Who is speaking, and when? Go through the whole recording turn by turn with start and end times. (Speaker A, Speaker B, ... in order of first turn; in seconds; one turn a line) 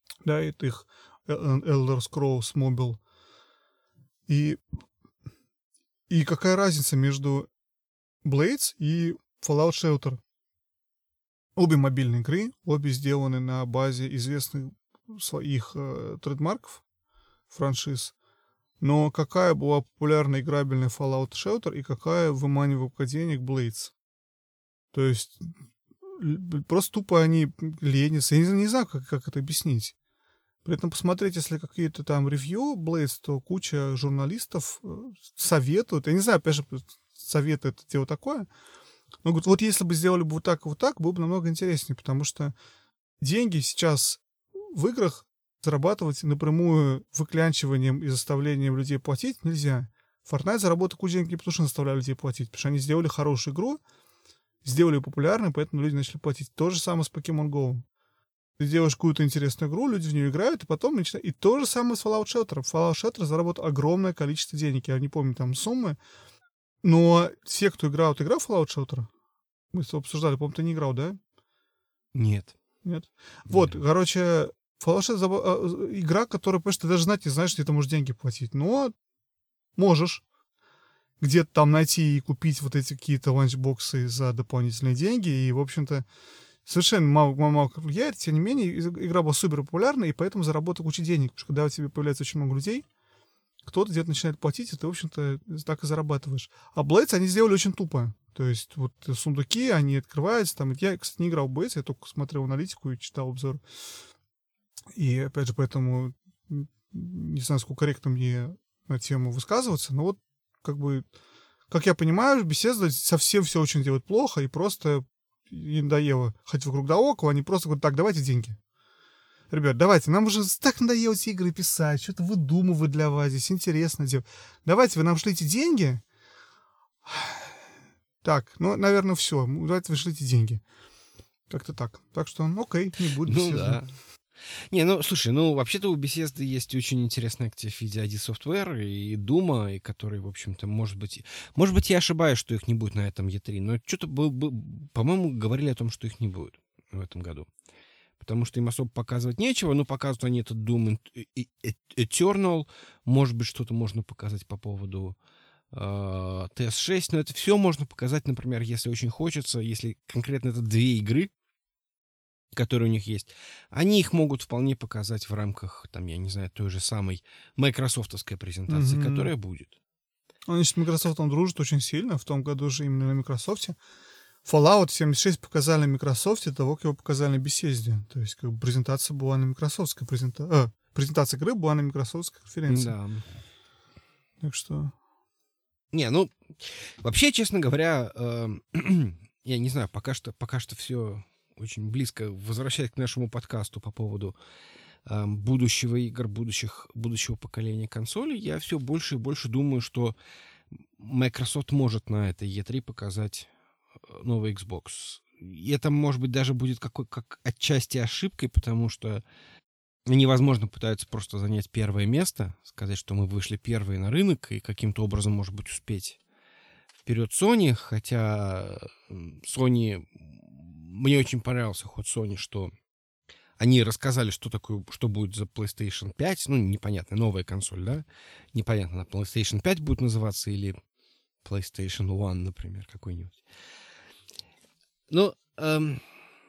Speaker A: 0.2-3.0
Speaker A: 4.3-4.6
Speaker A: 6.1-7.5
Speaker A: 8.2-10.2
Speaker A: 11.6-16.8
Speaker A: 17.5-18.1
Speaker A: 18.8-23.9
Speaker A: 24.9-25.5
Speaker A: 26.1-29.9
Speaker A: 30.6-38.5
Speaker A: 39.2-42.5
Speaker A: 43.2-53.8
Speaker A: 54.6-57.8
Speaker A: 58.6-66.0
Speaker A: 66.8-69.1
Speaker A: 69.7-71.2
Speaker B: 72.1-72.5
Speaker A: 72.8-78.9
Speaker B: 73.5-73.8
Speaker A: 79.8-80.2
Speaker A: 81.2-86.0
Speaker A: 86.7-92.8
Speaker A: 93.7-103.6
Speaker A: 105.0-111.1
Speaker A: 111.7-118.6
Speaker A: 119.5-126.0
Speaker A: 127.1-127.5
Speaker A: 128.2-130.6
Speaker A: 131.5-133.8
Speaker B: 133.3-133.9
Speaker B: 134.5-147.5
Speaker B: 148.2-155.2
Speaker B: 155.7-161.3
Speaker B: 162.5-169.8
Speaker A: 168.7-169.3
Speaker A: 170.5-173.8
Speaker A: 174.4-183.0
Speaker B: 182.7-183.2
Speaker A: 184.4-184.9
Speaker B: 185.9-194.3
Speaker B: 195.1-200.2
Speaker B: 201.0-203.5
Speaker B: 204.0-209.2
Speaker B: 210.1-216.2
Speaker B: 217.1-222.7
Speaker B: 223.6-230.8
Speaker B: 231.4-233.4
Speaker B: 235.1-236.0